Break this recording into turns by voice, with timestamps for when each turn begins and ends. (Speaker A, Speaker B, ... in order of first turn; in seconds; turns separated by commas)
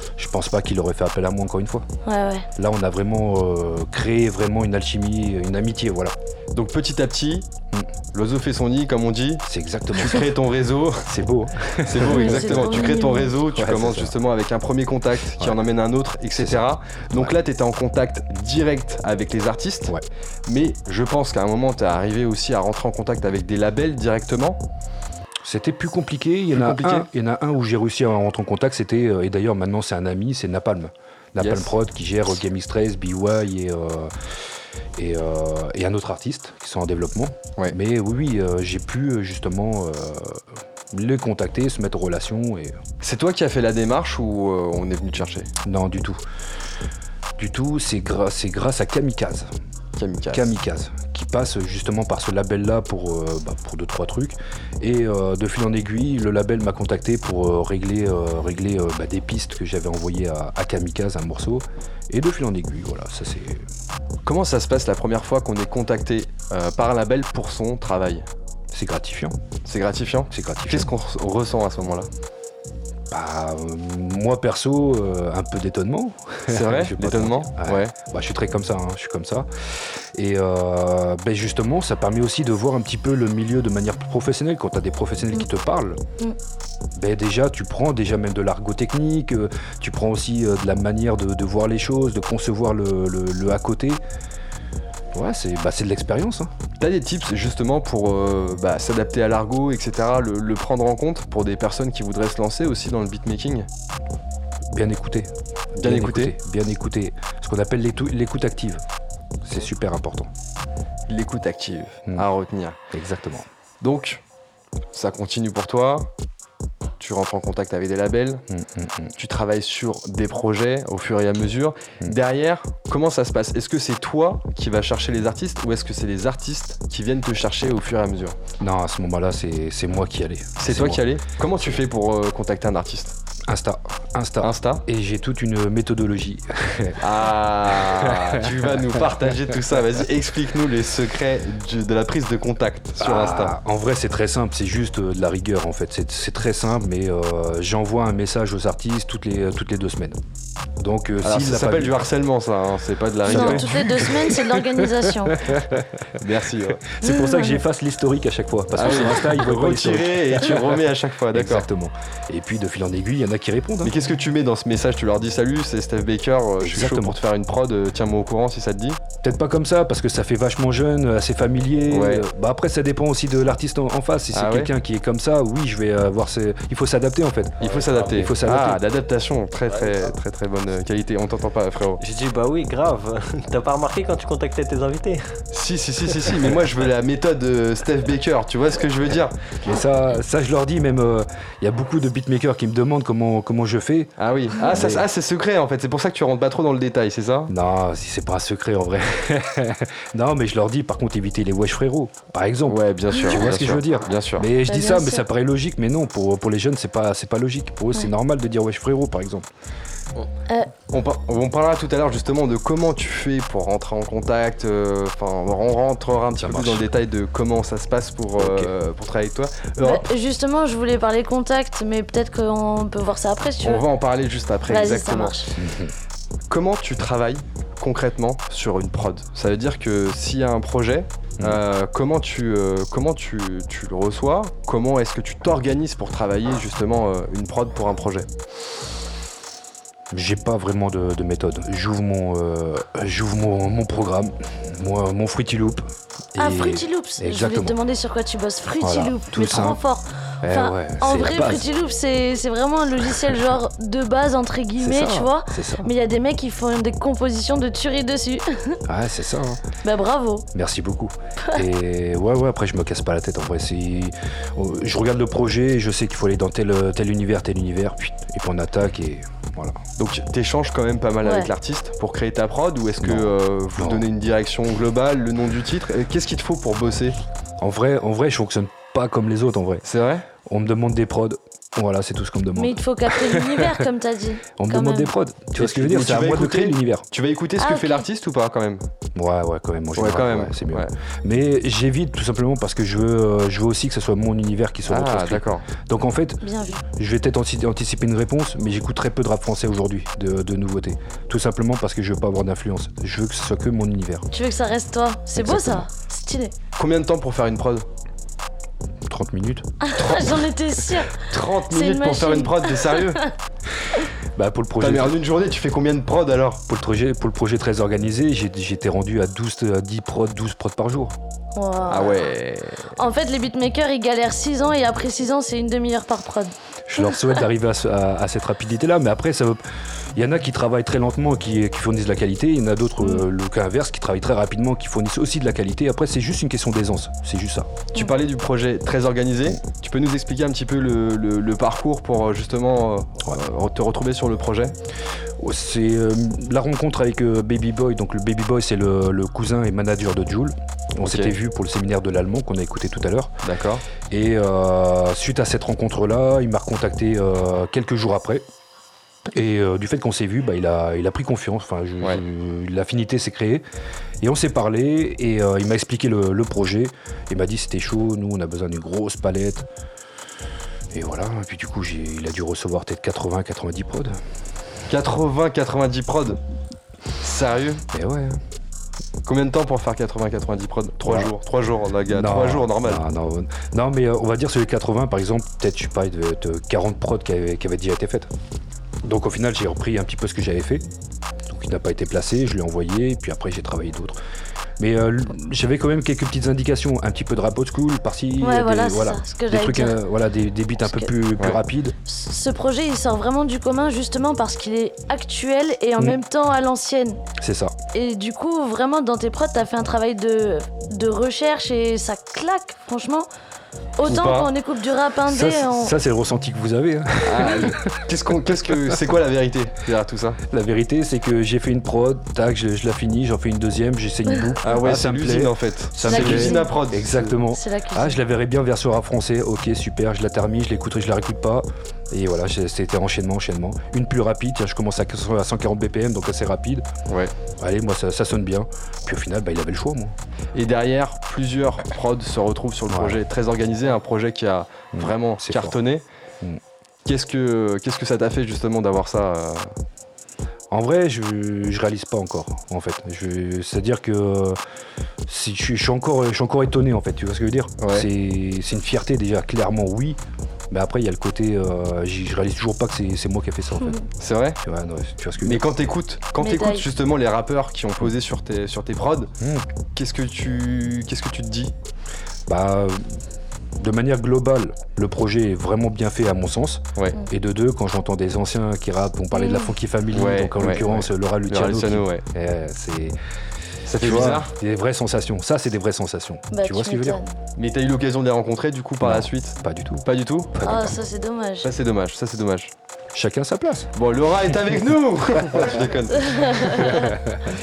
Speaker A: 0.2-1.8, Speaker B: 2.0-2.5, Speaker A: 2.5-6.1, Speaker C: 6.5-7.5, Speaker C: 8.1-11.1, Speaker A: 9.4-10.3, Speaker A: 11.1-14.1, Speaker C: 11.8-19.9, Speaker B: 12.1-13.3, Speaker A: 16.4-17.4, Speaker C: 20.5-24.6, Speaker A: 25.4-34.1, Speaker C: 26.5-27.1, Speaker C: 31.4-31.7, Speaker A: 35.0-42.8, Speaker C: 43.0-45.5, Speaker A: 45.6-46.2, Speaker A: 47.4-49.5, Speaker C: 50.0-50.4, Speaker A: 50.3-63.6, Speaker C: 64.2-68.2, Speaker A: 68.7-69.4, Speaker C: 69.7-72.1, Speaker A: 70.3-70.9, Speaker A: 73.1-79.5, Speaker C: 76.5-77.9, Speaker A: 80.1-86.0, Speaker A: 87.0-94.0, Speaker A: 95.1-96.5, Speaker C: 96.8-103.7, Speaker A: 104.7-108.8, Speaker C: 105.8-106.3, Speaker A: 109.4-110.3, Speaker C: 111.1-112.8, Speaker A: 112.9-113.5, Speaker C: 113.8-114.2, Speaker C: 114.9-116.1, Speaker C: 117.0-118.4, Speaker A: 118.5-119.1, Speaker C: 119.2-128.3, Speaker A: 128.6-131.1, Speaker C: 130.6-133.2, Speaker A: 133.5-137.0, Speaker C: 134.4-134.8, Speaker C: 137.0-143.5, Speaker A: 137.7-138.3, Speaker A: 143.0-150.2, Speaker A: 150.8-152.0, Speaker C: 151.2-154.1, Speaker B: 153.2-155.4, Speaker A: 153.3-155.8, Speaker C: 156.2-156.9, Speaker A: 156.9-160.8, Speaker B: 157.0-157.6, Speaker C: 158.8-161.7, Speaker A: 161.3-163.9, Speaker C: 163.8-169.0, Speaker A: 166.6-167.2, Speaker A: 169.2-178.8, Speaker C: 171.9-172.2, Speaker C: 174.3-174.7, Speaker C: 177.6-182.0, Speaker D: 177.6-178.1, Speaker D: 182.0-185.2, Speaker C: 185.5-189.4, Speaker A: 189.6-195.1, Speaker C: 194.2-197.5, Speaker A: 197.5-209.5, Speaker C: 202.7-204.5, Speaker B: 204.7-205.2, Speaker C: 210.9-220.1, Speaker A: 216.4-216.9, Speaker A: 218.4-218.7, Speaker B: 219.8-223.8, Speaker C: 223.6-225.3, Speaker B: 224.7-225.5, Speaker A: 225.6-225.9, Speaker C: 226.5-238.3, Speaker A: 240.1-247.8, Speaker B: 246.4-258.8, Speaker A: 248.8-249.8, Speaker A: 250.4-251.7, Speaker A: 254.8-255.9, Speaker A: 258.9-259.6, Speaker B: 259.8-260.5, Speaker A: 260.5-269.8, Speaker C: 270.0-277.2, Speaker B: 271.2-271.5, Speaker A: 273.0-274.1, Speaker A: 277.6-279.8, Speaker C: 279.8-280.3, Speaker A: 280.4-283.8, Speaker B: 282.6-285.1, Speaker A: 284.6-287.1, Speaker C: 285.6-288.9, Speaker B: 287.6-288.0, Speaker A: 289.1-304.3, Speaker C: 289.9-290.9, Speaker C: 294.9-295.7, Speaker B: 296.4-296.8, Speaker B: 304.3-306.5, Speaker A: 305.4-305.9, Speaker C: 306.8-307.9, Speaker A: 309.1-309.7, Speaker B: 309.8-313.3, Speaker C: 310.0-310.4, Speaker C: 311.2-313.2, Speaker A: 314.3-315.2, Speaker C: 314.8-316.6, Speaker A: 316.7-321.1, Speaker B: 321.6-322.3, Speaker C: 321.9-322.9, Speaker B: 322.9-327.4, Speaker A: 326.9-329.6, Speaker A: 330.1-337.8, Speaker C: 337.9-344.7, Speaker A: 345.4-353.3, Speaker C: 351.0-351.3, Speaker C: 353.4-353.9, Speaker A: 354.1-358.4, Speaker A: 359.3-363.6, Speaker A: 364.2-369.6, Speaker A: 370.9-374.2, Speaker C: 374.9-376.4, Speaker C: 377.2-377.8, Speaker A: 377.9-378.4, Speaker C: 379.2-383.0, Speaker A: 381.0-381.3, Speaker A: 382.1-388.3, Speaker A: 389.0-390.8, Speaker A: 391.5-394.2, Speaker A: 394.8-401.9, Speaker B: 398.4-400.0, Speaker B: 400.8-401.1, Speaker B: 402.1-407.2, Speaker A: 407.4-407.7, Speaker B: 407.9-413.3, Speaker B: 414.0-415.9, Speaker C: 414.0-414.5, Speaker A: 415.3-417.9, Speaker C: 417.2-420.4, Speaker A: 420.5-436.9, Speaker C: 424.6-427.3, Speaker B: 426.0-426.7, Speaker B: 427.5-428.2, Speaker A: 437.6-440.1, Speaker C: 440.5-446.0, Speaker A: 442.9-443.2, Speaker A: 444.9-445.8, Speaker C: 447.0-449.7, Speaker A: 450.7-454.6, Speaker A: 455.2-460.2, Speaker C: 457.8-458.1, Speaker A: 460.7-464.0, Speaker C: 464.2-464.6, Speaker A: 464.6-465.6, Speaker C: 465.4-469.3, Speaker B: 466.4-466.8, Speaker A: 469.4-469.6, Speaker C: 469.9-471.7, Speaker A: 472.5-473.3, Speaker A: 473.8-483.1, Speaker B: 479.3-479.7, Speaker C: 480.1-482.2, Speaker C: 483.9-484.5, Speaker A: 483.9-487.2, Speaker B: 486.5-487.3, Speaker C: 487.6-490.5, Speaker A: 489.0-491.0, Speaker B: 490.6-491.7, Speaker C: 491.6-492.7, Speaker A: 493.1-493.9, Speaker C: 493.9-497.0, Speaker B: 496.2-497.1